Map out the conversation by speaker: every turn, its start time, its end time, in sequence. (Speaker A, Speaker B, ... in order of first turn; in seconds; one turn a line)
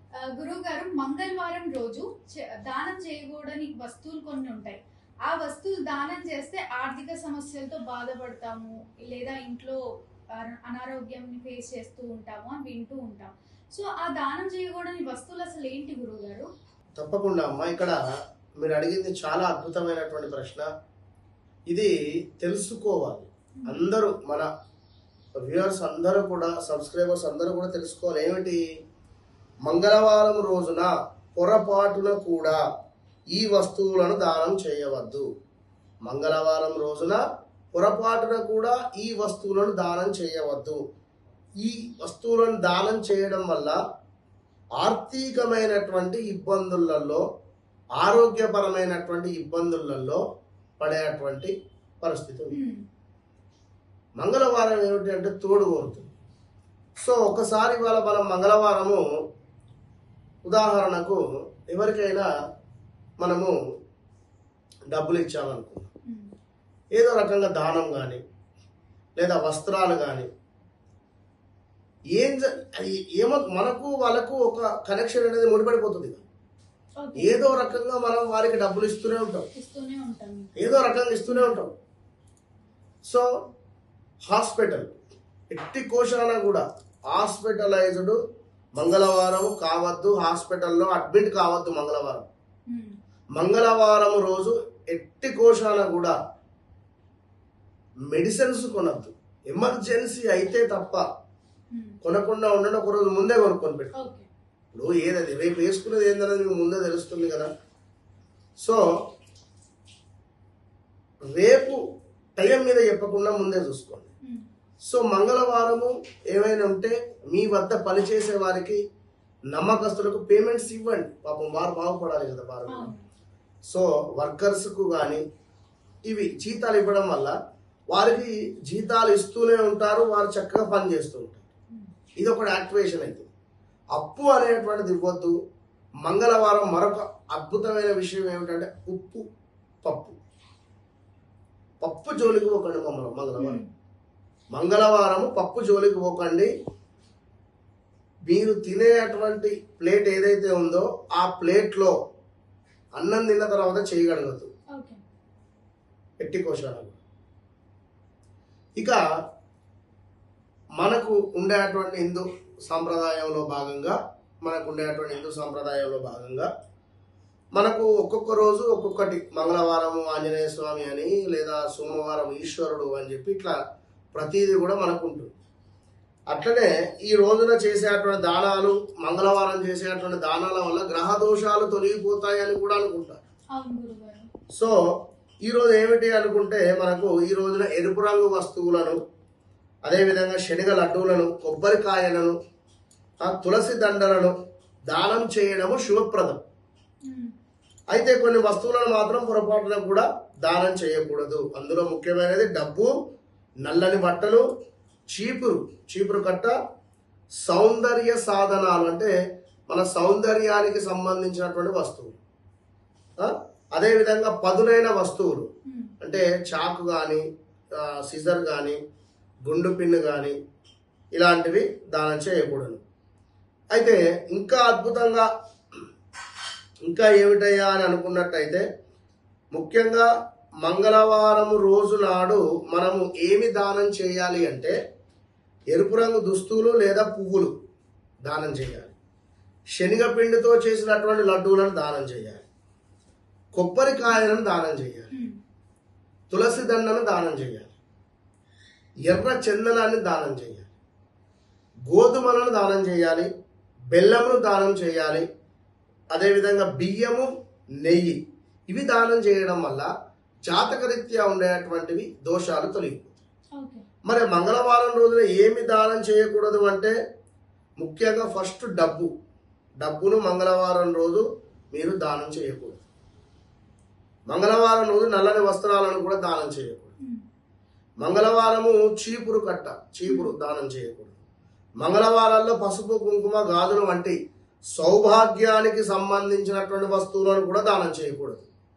Speaker A: 0.2-9.8
Speaker A: 10.3-16.5
Speaker B: 17.0-18.0
Speaker B: 18.6-20.7
Speaker B: 21.7-24.5
Speaker A: 23.6-23.8
Speaker B: 25.4-28.6
Speaker B: 29.6-32.6
Speaker B: 33.3-35.2
Speaker B: 36.0-37.2
Speaker B: 37.7-40.8
Speaker B: 41.6-43.8
Speaker B: 44.8-47.2
Speaker B: 48.0-50.2
Speaker B: 50.8-52.6
Speaker A: 52.5-52.8
Speaker B: 54.2-56.1
Speaker B: 57.0-59.0
Speaker B: 60.5-62.3
Speaker B: 63.2-63.5
Speaker B: 64.9-65.9
Speaker B: 66.9-68.2
Speaker B: 69.2-70.3
Speaker B: 72.2-76.2
Speaker A: 77.0-77.5
Speaker B: 77.2-79.5
Speaker A: 79.6-80.6
Speaker B: 80.6-81.7
Speaker A: 81.3-81.6
Speaker B: 84.2-84.9
Speaker B: 85.5-88.2
Speaker B: 88.8-92.3
Speaker A: 92.7-93.0
Speaker B: 93.3-96.2
Speaker B: 98.1-101.0
Speaker A: 101.7-102.0
Speaker B: 102.0-104.0
Speaker A: 104.0-104.3
Speaker B: 104.7-107.5
Speaker B: 111.3-111.8
Speaker B: 112.4-114.1
Speaker B: 114.8-118.8
Speaker B: 119.5-122.9
Speaker A: 122.7-123.0
Speaker B: 123.7-125.2
Speaker B: 126.1-127.3
Speaker B: 127.9-131.5
Speaker B: 132.2-133.3
Speaker B: 133.9-135.3
Speaker B: 136.0-139.2
Speaker B: 139.8-140.2
Speaker B: 141.8-143.6
Speaker A: 143.4-143.7
Speaker B: 144.5-146.5
Speaker B: 148.3-151.9
Speaker B: 153.0-154.5
Speaker A: 154.8-155.0
Speaker B: 156.2-157.0
Speaker B: 158.8-159.0
Speaker B: 160.8-166.5
Speaker B: 167.6-173.6
Speaker B: 174.1-175.3
Speaker B: 176.3-183.2
Speaker A: 183.6-184.3
Speaker B: 185.4-189.0
Speaker B: 189.8-192.3
Speaker B: 193.2-194.3
Speaker B: 194.9-196.4
Speaker A: 197.1-197.3
Speaker B: 197.9-202.9
Speaker B: 203.6-204.4
Speaker B: 205.1-206.5
Speaker B: 207.4-209.1
Speaker B: 209.7-212.1
Speaker B: 213.2-215.5
Speaker A: 215.7-215.9
Speaker B: 216.0-217.2
Speaker B: 217.8-218.8
Speaker B: 219.4-220.3
Speaker B: 221.2-222.8
Speaker B: 223.7-225.3
Speaker B: 226.9-228.6
Speaker B: 229.5-230.1
Speaker B: 230.6-234.8
Speaker B: 235.7-237.5
Speaker B: 238.2-238.9
Speaker B: 239.7-242.4
Speaker B: 243.5-245.1
Speaker B: 246.3-247.7
Speaker B: 249.1-250.7
Speaker B: 251.9-253.3
Speaker B: 253.9-255.2
Speaker B: 256.1-257.3
Speaker B: 257.8-258.2
Speaker B: 258.7-259.9
Speaker B: 260.5-263.2
Speaker A: 263.6-263.9
Speaker B: 264.1-266.9
Speaker B: 267.8-269.1
Speaker B: 269.8-272.9
Speaker B: 274.3-276.9
Speaker B: 278.0-281.2
Speaker A: 280.1-280.3
Speaker B: 281.8-284.1
Speaker B: 284.8-288.5